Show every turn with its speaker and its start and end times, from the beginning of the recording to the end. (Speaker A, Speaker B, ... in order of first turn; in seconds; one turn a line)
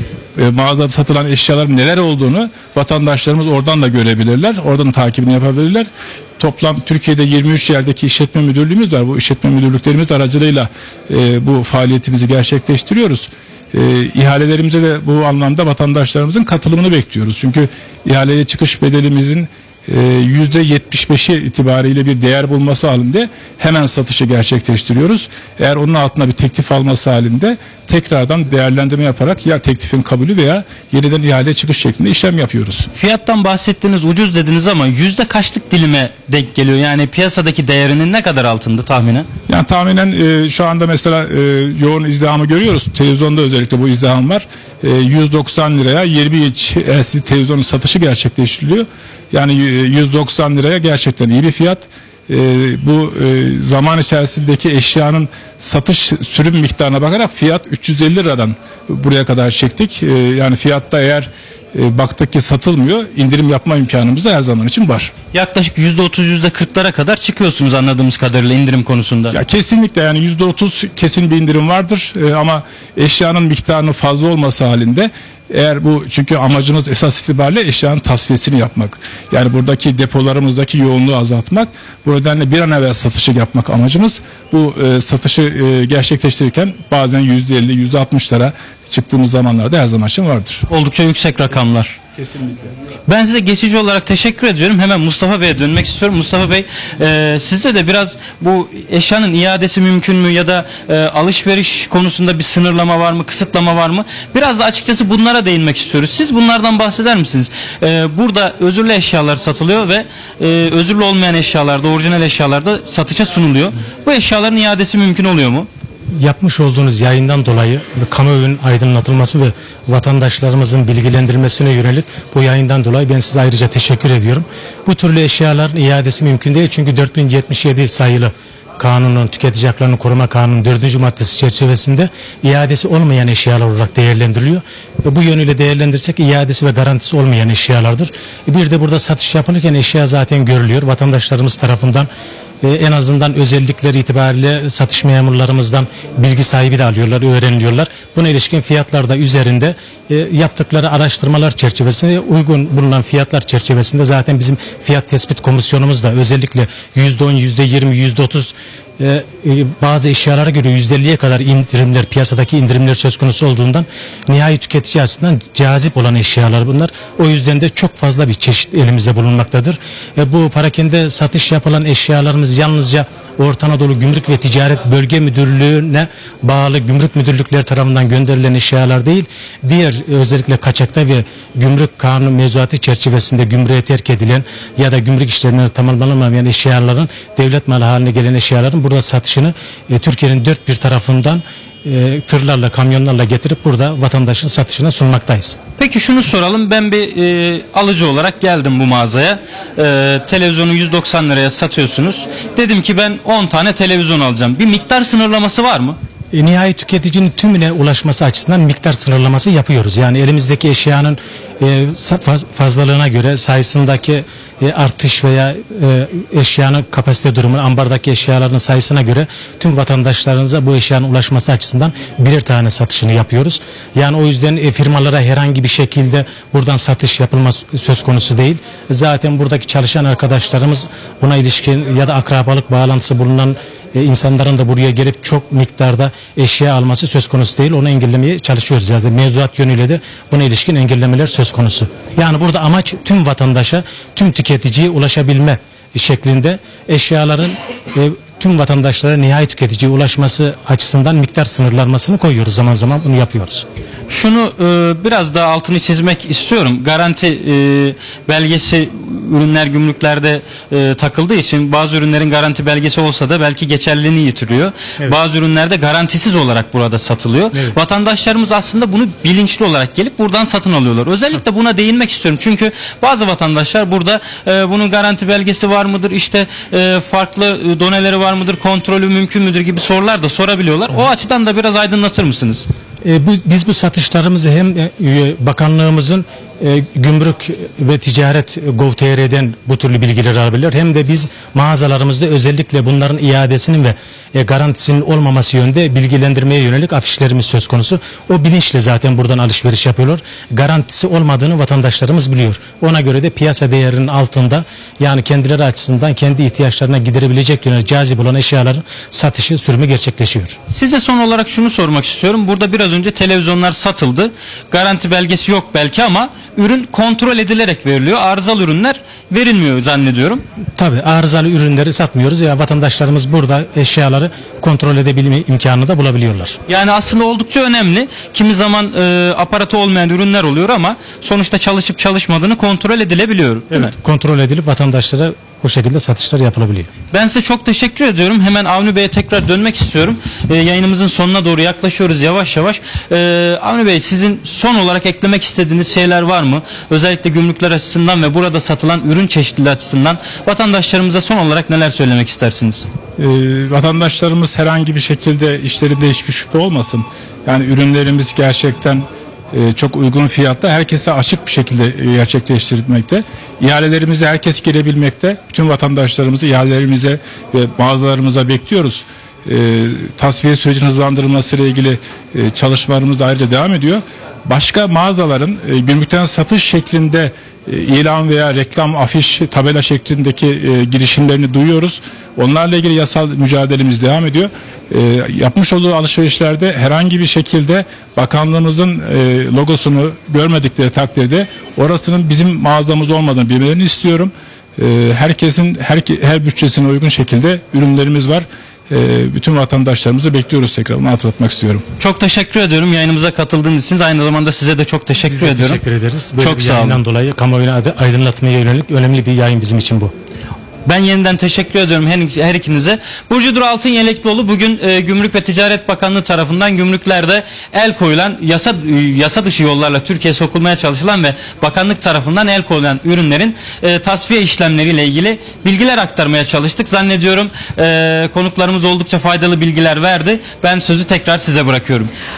Speaker A: 0.3-32.9
Speaker B: 32.9-39.3
Speaker A: 39.5-65.1
Speaker B: 65.3-69.3
Speaker A: 69.3-90.7
Speaker B: 90.7-92.0
Speaker A: 92.2-92.7
Speaker B: 93.1-115.7
Speaker C: 116.1-142.1
Speaker C: 142.6-195.6
Speaker B: 195.8-206.0
Speaker C: 206.3-253.6
Speaker B: 254.1-282.6
Speaker C: 283.0-310.6
Speaker B: 310.7-320.4
Speaker C: 320.8-326.6
Speaker B: 326.7-333.9
Speaker C: 333.7-336.9
Speaker B: 337.1-352.9
Speaker A: 353.2-401.8
Speaker B: 402.0-405.8
Speaker C: 405.3-410.1
Speaker B: 406.4-407.0
Speaker B: 410.8-432.1